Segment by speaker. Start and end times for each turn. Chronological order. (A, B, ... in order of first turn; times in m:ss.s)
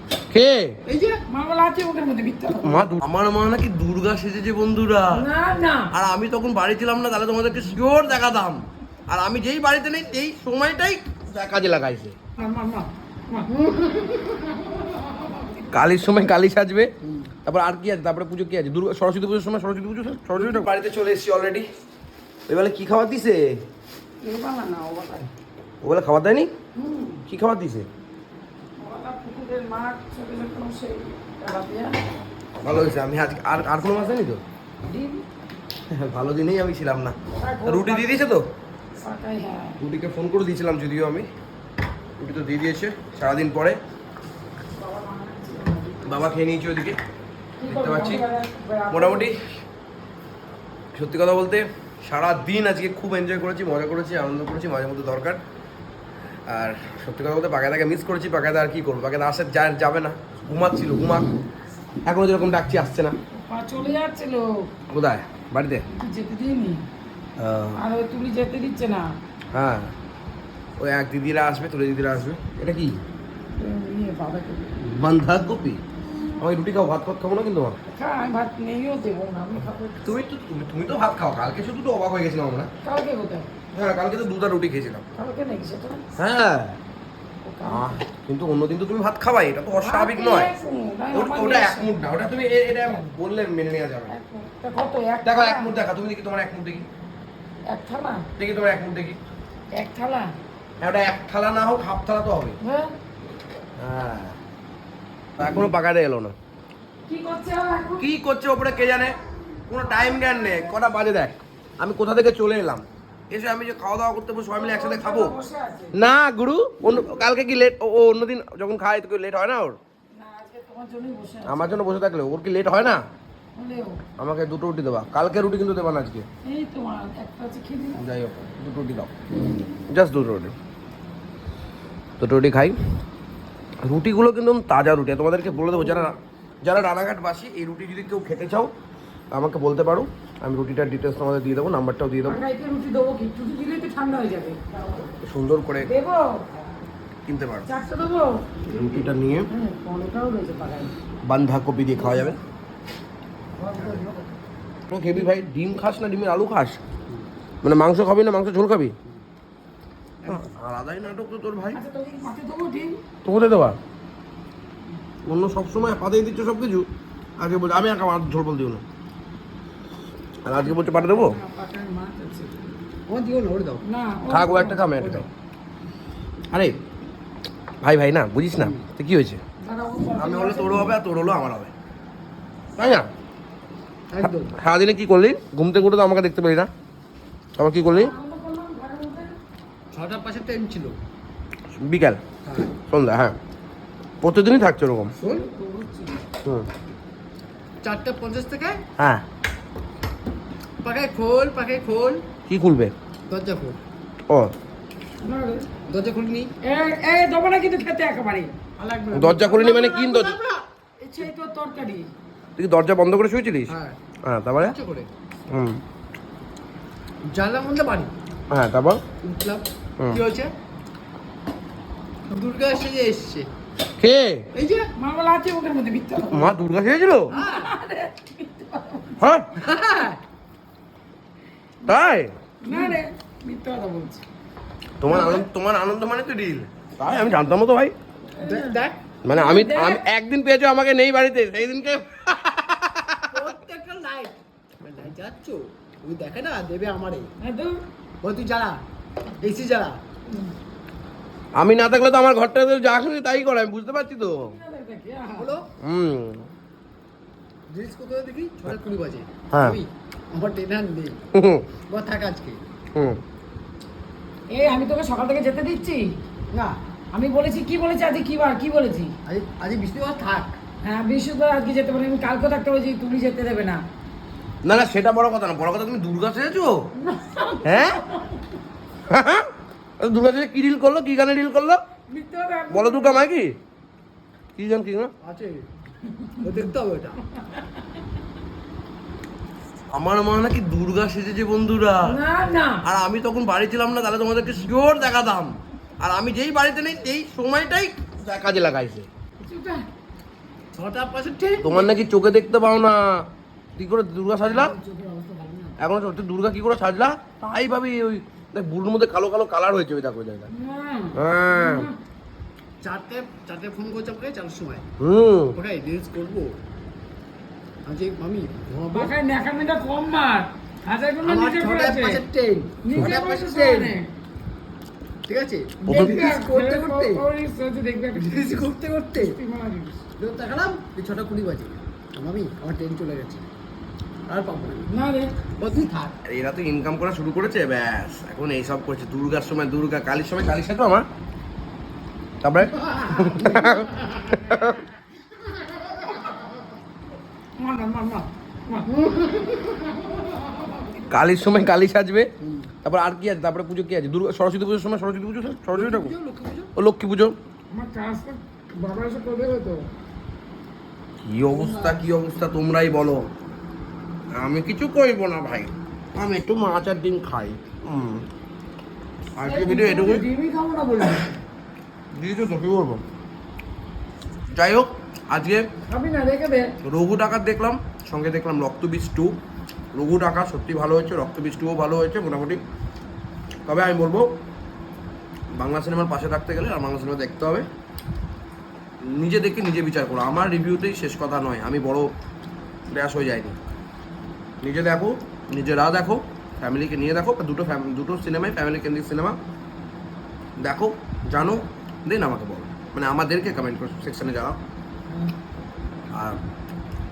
0:00.3-0:00.8 A
0:00.9-0:01.2 B
0:01.3-0:02.9 C
0:02.5-0:05.2 A
0:05.1-0:05.9 C
0:05.9-0:12.2 A
0:12.4-0:13.7 C
0:15.7-0:16.9 A
0:17.0-0:17.3 B
0:17.4-0:21.7 A
0:22.5-0:23.6 A
0:24.2-0:25.3 C
0:25.8-0:26.5 A
0:26.8-0:27.2 C
0:27.3-0:27.9 A
0:28.8-0:32.0 C
0:32.6-0:34.4 A
0:34.9-0:35.2 C
0:35.9-0:38.5 A
0:37.4-0:38.2 C
0:39.0-0:39.8 C
0:39.8-0:41.3 A
0:42.2-0:43.8 A
0:44.7-0:46.3 C
0:46.0-0:47.0 A
0:47.6-0:49.3 C
0:47.7-0:48.2 A
0:48.9-0:49.4 A
0:50.9-0:55.4 A
0:56.5-1:01.3 A
1:02.1-1:03.2 A
1:03.3-1:04.7 C
1:04.9-1:05.9 A
1:05.9-1:06.8 C
1:07.4-1:07.8 A
1:07.8-1:09.1 C
1:09.5-1:09.9 A
1:10.8-1:13.0 A
1:13.6-1:14.8 C
1:14.8-1:15.8 A
1:16.4-1:17.8 A
1:17.9-1:20.0 C
1:20.0-1:22.7 A
1:22.8-1:23.5 C
1:23.7-1:25.0 A
1:25.2-1:26.1 C
1:26.2-1:26.8 A
1:27.4-1:27.9 C
1:27.6-1:30.5 A
1:29.8-1:31.9 C
1:31.1-1:34.1 A
1:34.1-1:35.7 C
1:35.2-1:36.9 A
1:37.7-1:38.3 C
1:38.4-1:39.2 A
1:39.7-1:40.4 C
1:40.8-1:42.6 A
1:42.6-1:43.0 C
1:43.8-1:44.4 A
1:45.4-1:46.4 A
1:47.1-1:48.0 C
1:48.0-1:49.2 A
1:49.7-1:55.4 A
1:50.2-1:50.6 C
1:54.6-1:56.0 C
1:55.9-1:59.8 A
2:00.2-2:01.8 C
2:01.5-2:03.0 A
2:03.6-2:04.0 C
2:04.2-2:06.3 A
2:06.4-2:08.0 C
2:08.0-2:09.1 A
2:09.9-2:10.6 A
2:12.2-2:12.8 A
2:13.8-2:18.7 A
2:15.8-2:16.0 C
2:19.3-2:22.4 A
2:22.2-2:25.1 C
2:25.2-2:25.9 A
2:25.8-2:26.5 C
2:27.3-2:27.7 A
2:27.7-2:28.6 C
2:28.7-2:29.5 A
2:29.5-2:31.0 C
2:31.3-2:32.4 A
2:33.6-2:34.3 B
2:34.9-2:36.8 A
2:37.6-2:39.0 A
2:40.2-2:40.5 B
2:40.3-2:41.8 A
2:41.7-2:43.0 C
2:43.2-2:43.8 A
2:45.2-2:46.9 A
2:47.4-2:48.8 A
2:50.4-2:51.4 A
2:50.6-2:52.7 C
2:53.1-2:53.8 B
2:53.9-2:54.9 C
2:54.3-2:55.3 A
2:56.5-2:56.8 A
2:57.8-2:59.4 A
2:58.6-2:58.8 B
2:59.6-3:01.0 C
3:00.2-3:01.7 A
3:02.8-3:03.1 A
3:04.1-3:04.5 B
3:04.2-3:06.7 A
3:07.6-3:08.2 A
3:07.9-3:09.4 C
3:09.9-3:11.0 B
3:11.8-3:12.2 A
3:12.4-3:12.7 B
3:12.9-3:13.4 A
3:14.2-3:15.2 A
3:15.2-3:16.2 C
3:17.8-3:18.8 B
3:19.0-3:19.2 A
3:20.8-3:22.3 B
3:22.5-3:22.9 A
3:23.3-3:23.8 B
3:25.2-3:25.7 C
3:25.9-3:26.5 B
3:26.6-3:28.6 C
3:28.8-3:30.6 B
3:29.1-3:30.4 A
3:31.0-3:32.1 C
3:32.6-3:33.7 A
3:33.7-3:34.0 B
3:34.2-3:34.8 A
3:34.6-3:35.1 B
3:35.5-3:35.8 A
3:37.2-3:38.1 B
3:38.5-3:39.0 A
3:39.2-3:40.5 B
3:42.3-3:43.5 B
3:44.0-3:44.5 A
3:44.6-3:44.9 B
3:45.0-3:46.6 C
3:46.3-3:47.3 A
3:47.3-3:49.2 C
3:47.3-3:47.7 B
3:49.2-3:49.5 A
3:49.6-3:50.2 B
3:51.9-3:52.3 A
3:52.6-3:54.2 C
3:52.7-3:53.0 B
3:55.0-3:57.9 A
3:55.1-3:55.4 C
3:58.4-3:58.8 C
3:58.4-3:59.0 B
3:59.2-4:03.4 A
3:59.3-4:00.0 C
4:03.3-4:07.3 B
4:07.4-4:07.8 C
4:08.2-4:08.8 B
4:09.4-4:10.0 B
4:11.6-4:14.5 A
4:14.4-4:15.6 C
4:15.4-4:15.7 B
4:15.8-4:16.5 A
4:17.7-4:21.2 B
4:19.5-4:19.8 A
4:21.3-4:21.7 A
4:21.9-4:22.6 B
4:23.0-4:23.2 A
4:24.5-4:26.1 C
4:26.5-4:26.8 B
4:27.1-4:29.1 C
4:29.3-4:30.6 B
4:30.8-4:33.8 C
4:34.6-4:36.8 A
4:37.0-4:38.4 C
4:37.6-4:38.0 A
4:39.1-4:39.5 A
4:40.0-4:41.8 A
4:42.1-4:43.2 C
4:42.7-4:43.6 A
4:44.6-4:45.1 A
4:45.2-4:45.7 B
4:46.4-4:47.2 B
4:49.9-4:52.2 A
4:52.0-4:52.8 C
4:52.8-4:59.1 A
4:59.4-4:59.8 C
5:00.8-5:01.8 B
5:01.6-5:04.8 A
5:04.4-5:05.8 B
5:05.8-5:10.5 A
5:10.5-5:12.0 C
5:11.1-5:11.9 A
5:12.8-5:14.9 B
5:15.0-5:15.5 A
5:15.5-5:16.6 B
5:17.8-5:19.1 B
5:18.9-5:22.2 C
5:21.2-5:24.0 B
5:22.8-5:24.1 C
5:25.3-5:27.2 B
5:25.8-5:30.0 C
5:25.9-5:26.2 A
5:28.1-5:29.4 B
5:30.2-5:33.5 B
5:34.3-5:34.9 B
5:34.9-5:35.3 C
5:35.6-5:36.2 B
5:36.2-5:41.1 A
5:42.4-5:44.8 A
5:42.9-5:43.9 B
5:47.6-5:49.0 C
5:51.1-5:52.3 A
5:52.4-5:52.7 B
5:52.8-5:56.1 A
5:55.7-5:56.7 B
5:56.8-5:57.4 A
5:57.7-5:59.9 C
6:01.2-6:03.2 A
6:04.4-6:08.3 A
6:09.4-6:10.2 A
6:09.4-6:11.4 C
6:12.1-6:13.0 A
6:14.5-6:15.7 A
6:15.9-6:16.7 C
6:16.8-6:19.4 A
6:19.9-6:22.6 A
6:23.7-6:24.3 A
6:25.5-6:27.7 A
6:29.0-6:32.1 A
6:32.9-6:33.6 A
6:34.6-6:39.4 A
6:40.6-6:44.6 A
6:46.1-6:46.4 A